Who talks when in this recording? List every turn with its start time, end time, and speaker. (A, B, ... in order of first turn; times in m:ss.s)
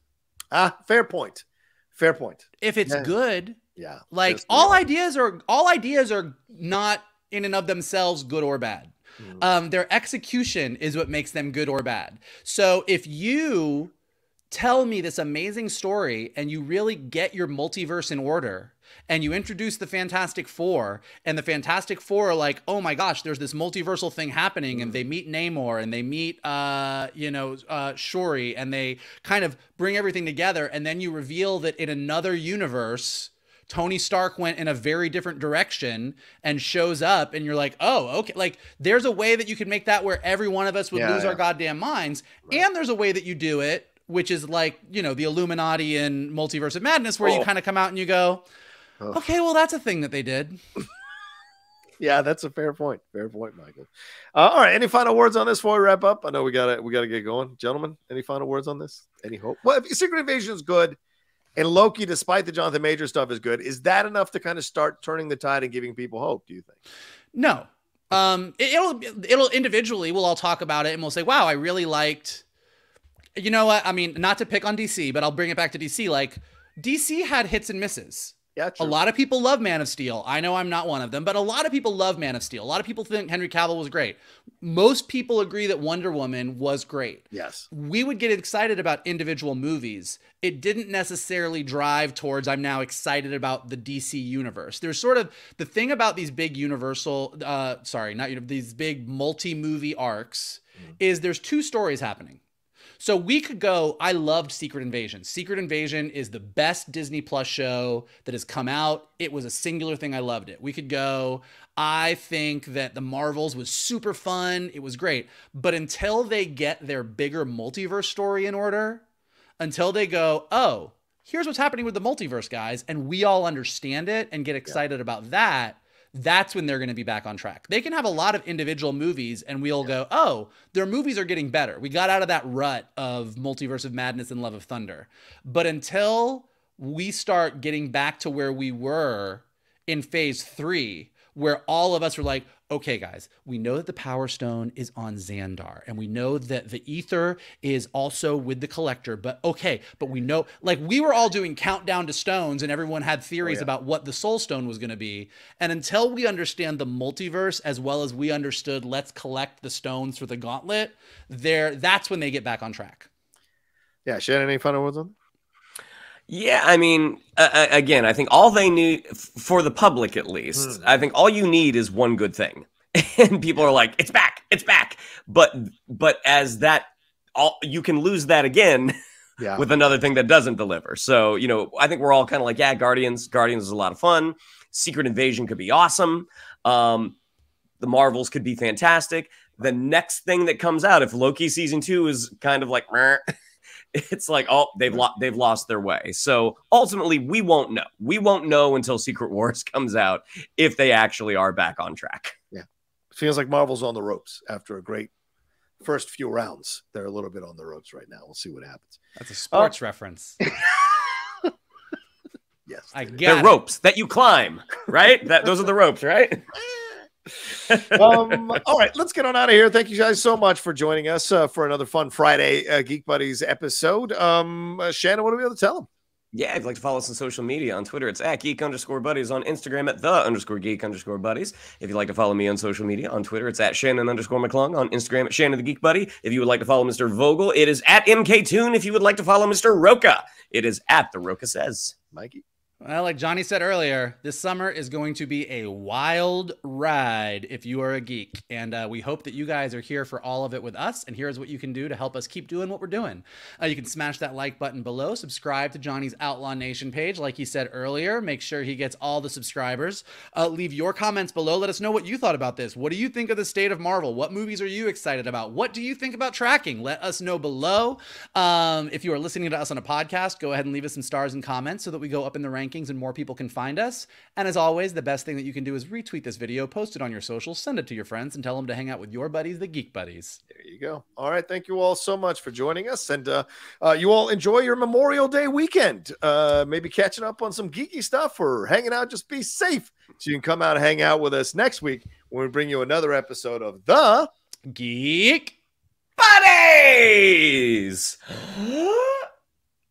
0:00.5-0:03.1 A
0:02.6-0:03.6 B
0:03.8-0:04.8 A
0:04.1-0:13.9 B
0:14.5-0:48.4 B
0:40.9-0:41.4 A
0:47.2-0:47.5 A
0:49.1-0:50.6 B
0:52.0-1:01.0 A
1:01.6-1:06.8 A
1:07.3-1:12.4 B
1:13.4-1:42.4 B
1:18.6-1:19.0 A
1:27.3-1:27.6 A
1:43.0-1:59.0 B
1:59.6-2:43.1 B
2:33.4-2:33.7 A
2:44.0-2:45.1 A
2:46.3-2:58.9 C
2:50.6-2:50.8 A
2:59.4-2:59.6 A
2:59.6-3:07.2 C
3:07.8-3:13.3 C
3:13.9-3:22.4 C
3:22.5-3:25.1 A
3:25.8-3:29.0 A
3:29.2-3:30.4 B
3:30.4-3:31.5 A
3:32.7-3:33.2 A
3:32.9-3:33.6 B
3:33.2-3:36.5 C
3:37.6-3:38.4 C
3:37.9-3:45.9 A
3:46.3-4:01.9 C
4:02.1-4:02.4 A
4:02.8-4:40.4 B
4:40.5-4:54.3 A
4:54.7-4:55.6 B
4:56.2-4:59.2 C